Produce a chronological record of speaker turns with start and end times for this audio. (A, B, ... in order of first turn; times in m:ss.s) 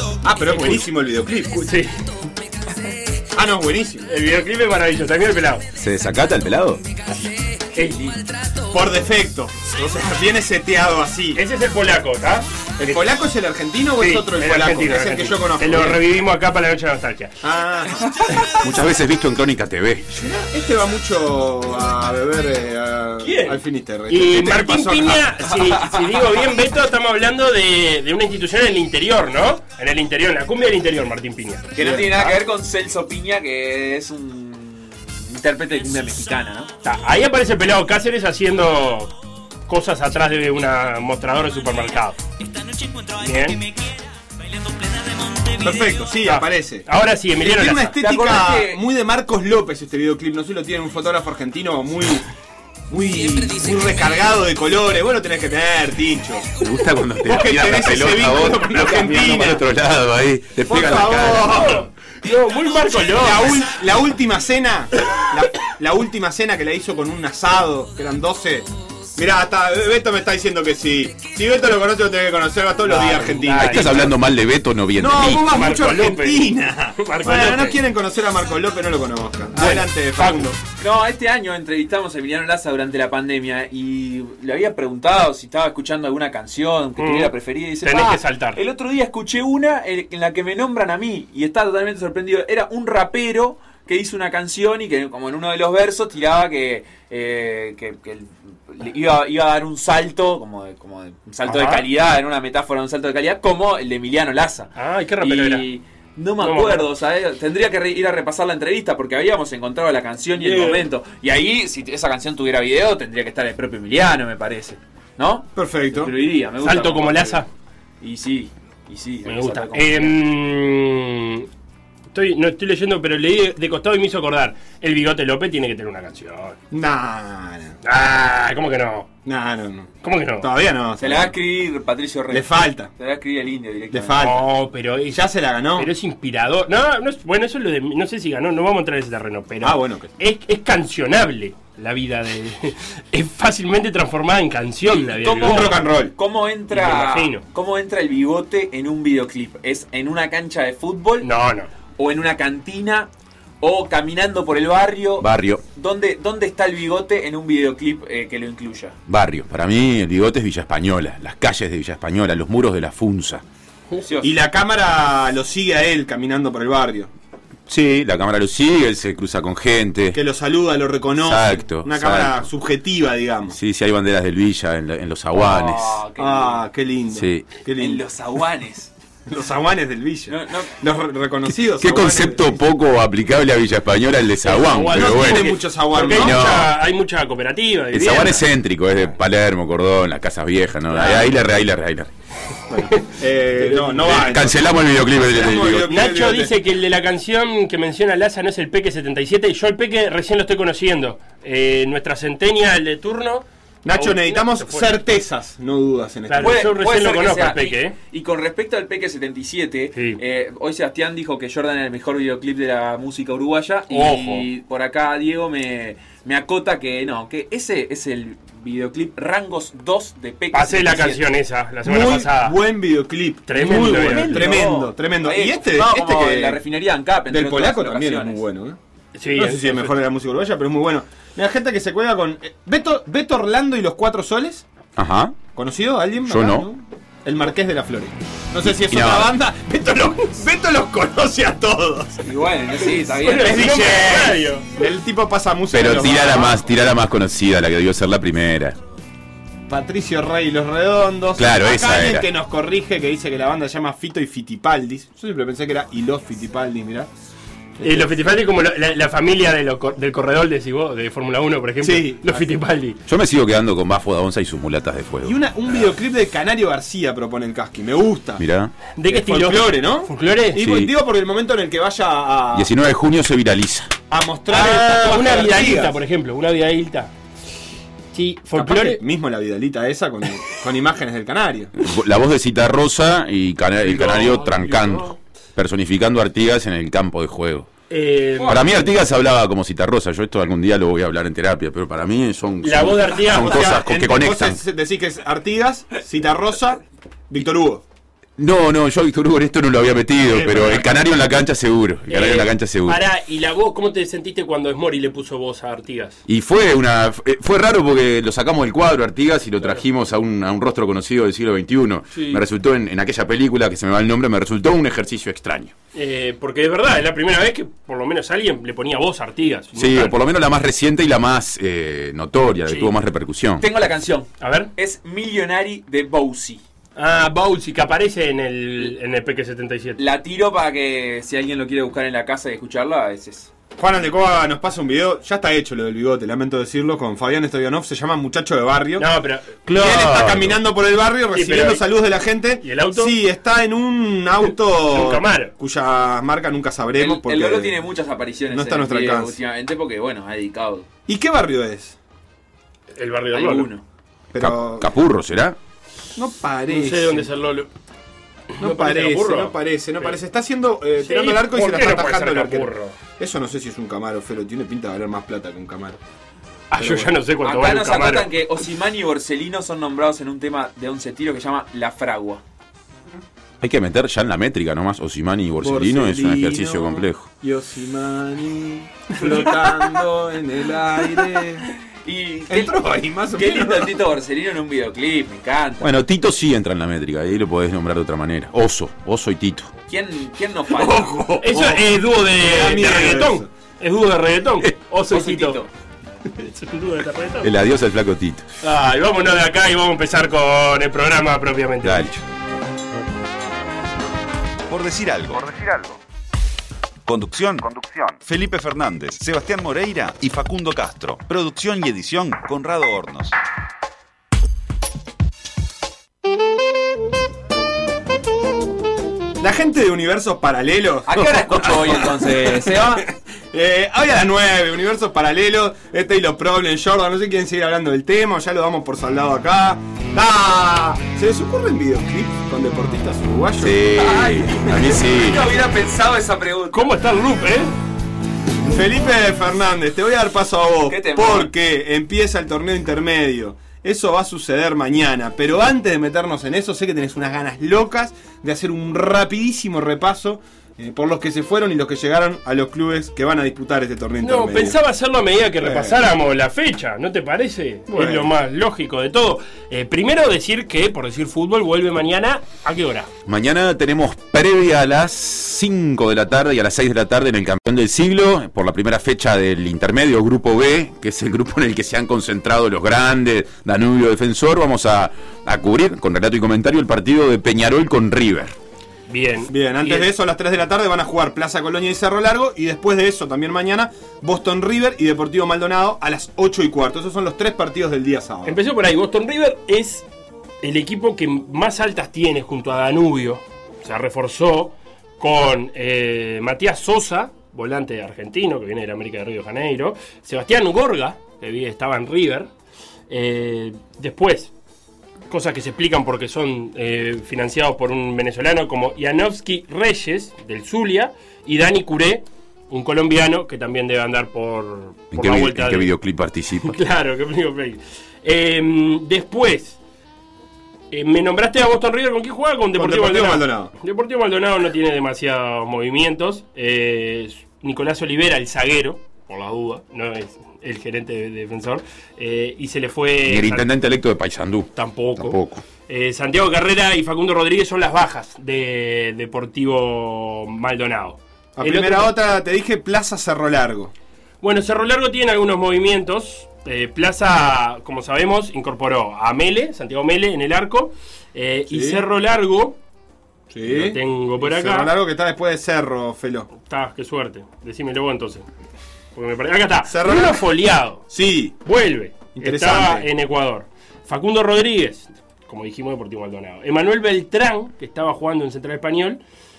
0:00.2-0:01.7 A
0:01.6-0:02.0 B
0:03.3-0:04.1 A
0:04.1-0:05.6 B
0:05.8-0:06.8 C
0:07.7-0:08.1 B
0:07.8-0:08.3 D
0:08.7-0:11.4 A
0:11.4-0:13.0 B
0:12.8-0:16.0 A
0:14.0-0:17.4 B
0:17.4-0:18.2 A
0:18.5-0:20.1 C
0:20.1-0:25.3 A
0:23.2-0:31.7 B
0:31.8-0:36.7 D
0:31.8-0:32.4 A
0:36.8-0:39.2 B
0:39.7-0:42.2 B
0:42.6-0:43.9 D
0:43.2-0:43.6 B
0:44.7-0:45.6 D
0:45.6-0:46.9 A
0:46.2-0:48.0 B
0:47.4-0:52.2 A
0:48.0-0:48.8 D
0:52.9-0:56.5 A
0:56.6-1:01.7 C
0:57.3-0:59.6 A
1:00.7-1:01.9 A
1:01.5-1:03.6 B
1:03.1-1:14.1 A
1:12.8-1:14.1 B
1:13.6-1:15.7 C
1:15.0-1:20.6 A
1:15.4-1:16.5 B
1:17.0-1:17.8 B
1:19.5-1:20.5 B
1:20.8-1:57.4 D
1:27.0-1:28.6 B
1:41.4-1:41.9 B
1:44.8-1:45.7 B
1:46.4-1:46.9 B
1:50.4-1:50.9 B
1:55.6-1:56.1 A
1:56.6-1:57.5 B
1:58.0-2:00.2 D
1:59.3-2:01.5 B
2:02.1-2:06.6 B
2:06.7-2:07.8 A
2:07.8-2:09.1 B
2:09.3-2:11.4 A
2:10.0-2:10.5 B
2:11.0-2:14.3 D
2:12.3-2:12.9 A
2:13.9-2:14.5 A
2:14.2-2:15.2 B
2:15.1-2:15.9 A
2:15.8-2:25.8 B
2:19.6-2:20.1 A
2:25.2-2:31.3 D
2:25.4-2:26.1 A
2:26.7-2:27.4 B
2:31.2-2:31.7 B
2:32.0-2:33.1 D
2:33.6-2:39.0 D
2:35.2-2:35.6 C
2:39.1-2:43.4 C
2:44.0-2:44.4 D
2:44.2-2:47.1 A
2:47.7-2:50.2 C
2:50.1-2:53.6 A
2:51.2-2:52.5 C
2:53.5-2:56.0 C
2:55.4-2:56.6 D
2:56.2-2:58.0 A
2:57.1-2:57.5 C
2:57.8-2:58.9 D
2:59.3-3:02.6 A
3:00.3-3:00.8 D
3:01.6-3:06.7 C
3:04.4-3:08.5 B
3:04.7-3:06.6 A
3:07.9-3:12.1 C
3:10.9-3:11.4 A
3:12.7-3:16.5 A
3:13.6-3:14.0 B
3:14.0-3:15.9 C
3:15.9-3:24.9 B
3:23.8-3:26.7 A
3:26.3-3:28.0 B
3:26.4-3:41.2 D
3:29.9-3:30.2 B
3:33.9-3:34.5 B
3:40.5-3:42.6 B
3:41.8-3:46.6 A
3:43.5-3:44.5 B
3:43.6-3:48.4 D
3:47.3-3:48.8 A
3:49.2-3:50.0 B
3:49.4-3:54.6 A
3:55.0-3:55.4 C
3:55.6-4:02.2 A
3:56.2-3:56.7 C
3:58.6-3:59.4 C
4:02.2-4:04.3 D
4:03.2-4:04.8 B
4:03.3-4:06.8 A
4:05.7-4:08.8 C
4:09.7-4:17.1 A
4:11.4-4:12.3 C
4:17.8-4:18.3 A
4:17.8-4:23.0 B
4:21.8-4:22.5 A
4:23.1-4:25.4 C
4:25.2-4:28.4 A
4:28.4-4:28.7 C
4:29.0-4:30.6 B
4:29.1-4:32.7 A
4:30.6-4:30.9 C
4:32.5-4:33.9 C
4:34.1-4:36.0 A
4:34.5-4:37.1 B
4:38.1-4:39.0 B
4:38.6-4:41.7 A
4:41.8-4:47.7 C
4:43.8-4:45.2 B
4:47.9-4:48.6 B
4:48.4-4:48.7 D
4:48.4-4:54.6 C
4:52.6-4:53.8 B
4:53.3-4:57.8 A
4:58.4-5:03.0 C
5:00.3-5:01.1 B
5:02.1-5:06.2 B
5:06.3-5:15.7 C
5:12.1-5:12.4 B
5:15.9-5:20.2 B
5:19.8-5:23.6 C
5:23.6-5:26.6 D
5:24.4-5:24.7 B
5:27.0-5:30.0 B
5:30.0-5:33.5 D
5:33.8-5:39.1 A
5:39.0-5:40.1 B
5:39.7-5:40.6 C
5:39.7-5:47.8 A
5:41.3-5:41.8 B
5:42.6-5:43.2 B
5:44.9-5:45.5 B
5:47.0-5:50.9 D
5:48.5-5:49.4 A
5:51.1-5:52.0 A
5:53.0-5:53.7 B
5:53.3-5:53.8 D
5:54.3-5:54.9 A
5:54.4-5:55.6 C
5:56.2-5:57.3 A
5:56.7-5:57.7 B
5:58.5-6:00.2 B
5:58.6-6:06.0 A
6:01.0-6:03.0 B
6:06.7-6:08.4 B
6:06.8-6:07.1 A
6:07.4-6:12.4 D
6:13.6-6:17.3 C
6:15.6-6:21.7 A
6:22.0-6:22.8 D
6:22.5-6:24.0 A
6:23.3-6:25.9 D
6:25.8-6:29.7 C
6:29.9-6:31.5 D
6:30.8-6:33.5 A
6:31.4-6:35.6 B
6:35.1-6:35.7 D
6:36.4-6:37.5 B
6:37.4-6:38.4 C
6:38.6-6:42.2 B
6:41.8-6:42.2 C
6:44.7-6:46.0 E
6:47.1-6:53.3 E
6:59.4-7:13.8 A
7:01.1-7:03.1 D
7:13.6-7:15.4 C
7:14.0-7:16.9 D
7:16.7-7:17.7 B
7:18.7-7:34.8 A
7:20.9-7:21.5 D
7:34.2-7:43.1 B
7:35.6-7:36.0 A
7:37.9-7:38.3 A
7:43.3-7:58.6 C
7:59.1-8:00.1 B
7:59.5-8:08.6 A
8:08.4-8:10.1 B
8:10.6-8:22.5 B
8:23.1-8:24.5 B
8:25.3-8:35.9 B
8:35.1-8:36.8 C
8:36.6-8:39.8 B
8:40.9-8:53.7 B
8:42.8-8:43.7 A
8:53.3-8:55.6 C
8:54.8-9:02.1 B
9:01.6-9:03.9 A
9:04.4-9:12.8 B
9:11.7-9:12.0 A
9:13.5-9:16.5 A
9:13.7-9:14.9 B
9:16.6-9:18.5 B
9:19.2-9:21.1 B
9:19.9-9:20.4 A
9:21.1-9:21.6 A
9:21.6-9:29.2 B
9:22.4-9:23.1 A